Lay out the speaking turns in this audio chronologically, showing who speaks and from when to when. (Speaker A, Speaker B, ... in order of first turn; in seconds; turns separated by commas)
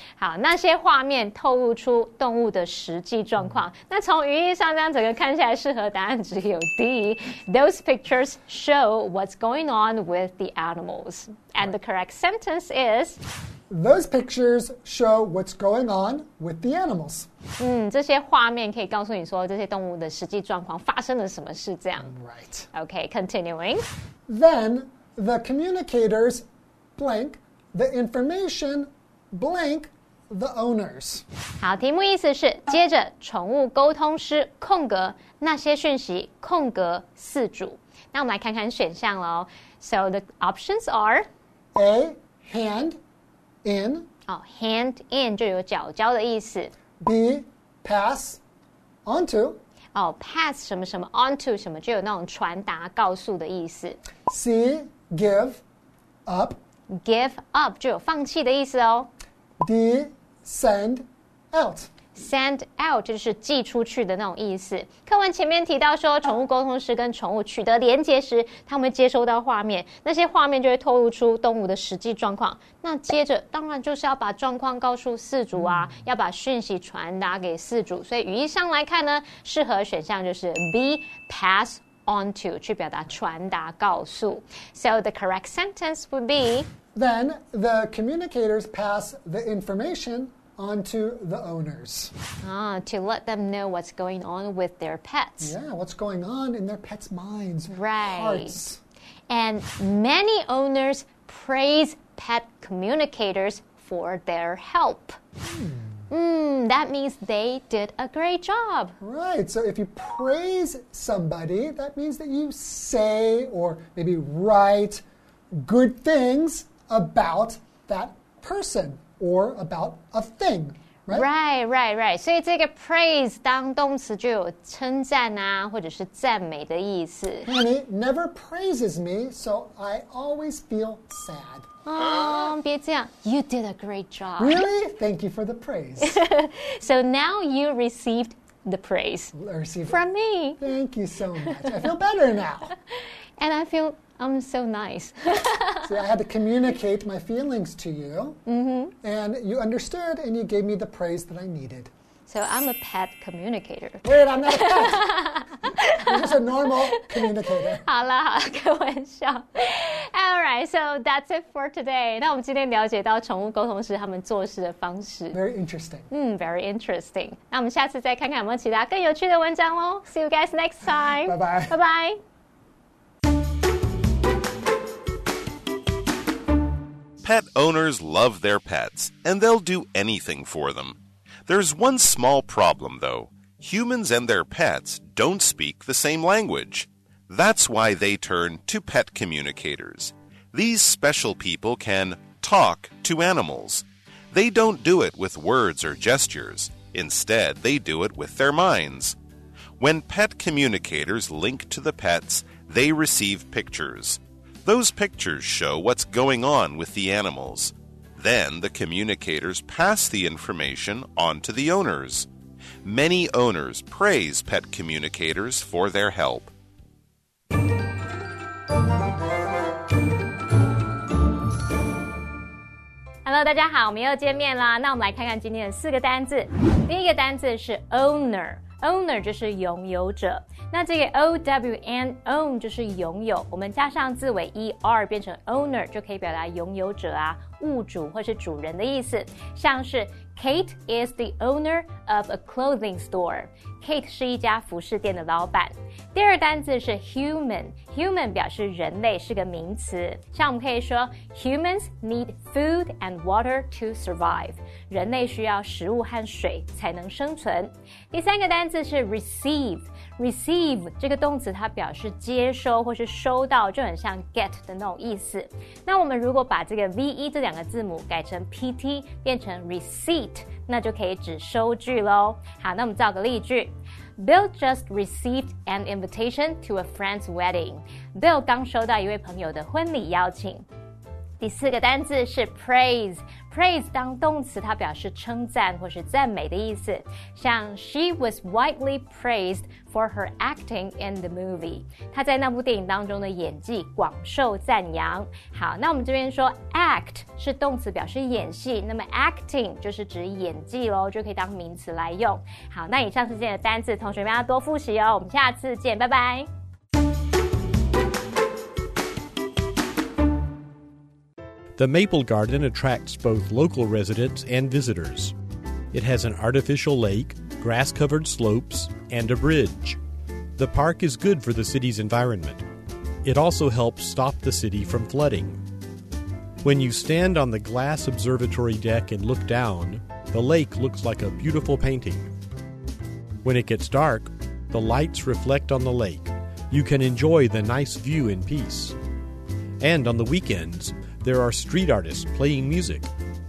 Speaker A: 0.2-13.2, Speaker B: 13.7-17.3, Speaker A: 17.6-22.1, Speaker B: 22.0-22.7, Speaker A: 22.7-23.8, Speaker B: 24.3-31.2, Speaker A: 31.6-41.3, Speaker B: 41.8-43.0, Speaker B: 43.6-44.1, Speaker A: 44.3-46.7, Speaker B: 47.0-48.4, Speaker B: 49.1-49.6, Speaker A: 50.0-54.0, Speaker B: 54.3-55.6, Speaker B: 56.3-56.6, Speaker A: 56.9-59.1, Speaker B: 59.6-61.9, Speaker A: 62.1-86.7, Speaker B: 87.0-92.1, Speaker A: 92.4-95.5, Speaker B: 95.4-98.8, Speaker A: 97.7-98.6, Speaker A: 99.3-105.2, Speaker B: 105.4-106.0, Speaker A: 106.1-109.0, Speaker B: 109.0-115.0, Speaker B: 115.5-121.3, Speaker A: 121.1-127.5, Speaker B: 127.4-131.7, Speaker A: 131.8-134.6, Speaker B: 134.4-136.2, Speaker A: 136.0-139.3, Speaker B: 139.3-140.0, Speaker A: 139.9-140.6, Speaker B: 140.6-142.7, Speaker A: 143.4-145.9, Speaker B: 145.8-148.4, Speaker A: 148.5-148.9, Speaker B: 149.0-151.9, Speaker A: 152.3-156.4, Speaker B: 154.0-155.1, Speaker B: 156.0-157.8, Speaker A: 157.8-165.4, Speaker B: 165.3-166.1, Speaker A: 166.1-172.2, Speaker B: 171.2-171.8, Speaker C: 177.2-199.2, Speaker C: 199.8-212.3, Speaker C: 212.8-216.5, Speaker A: 223.2-280.7, Speaker A: 281.4-306.5, Speaker D: 311.8-315.3, Speaker D: 315.9-320.0, Speaker D: 320.6-322.6, Speaker D: 323.2-325.6, Speaker D: 326.6-332.3, Speaker D: 333.4-339.0, Speaker D: 339.8-343.1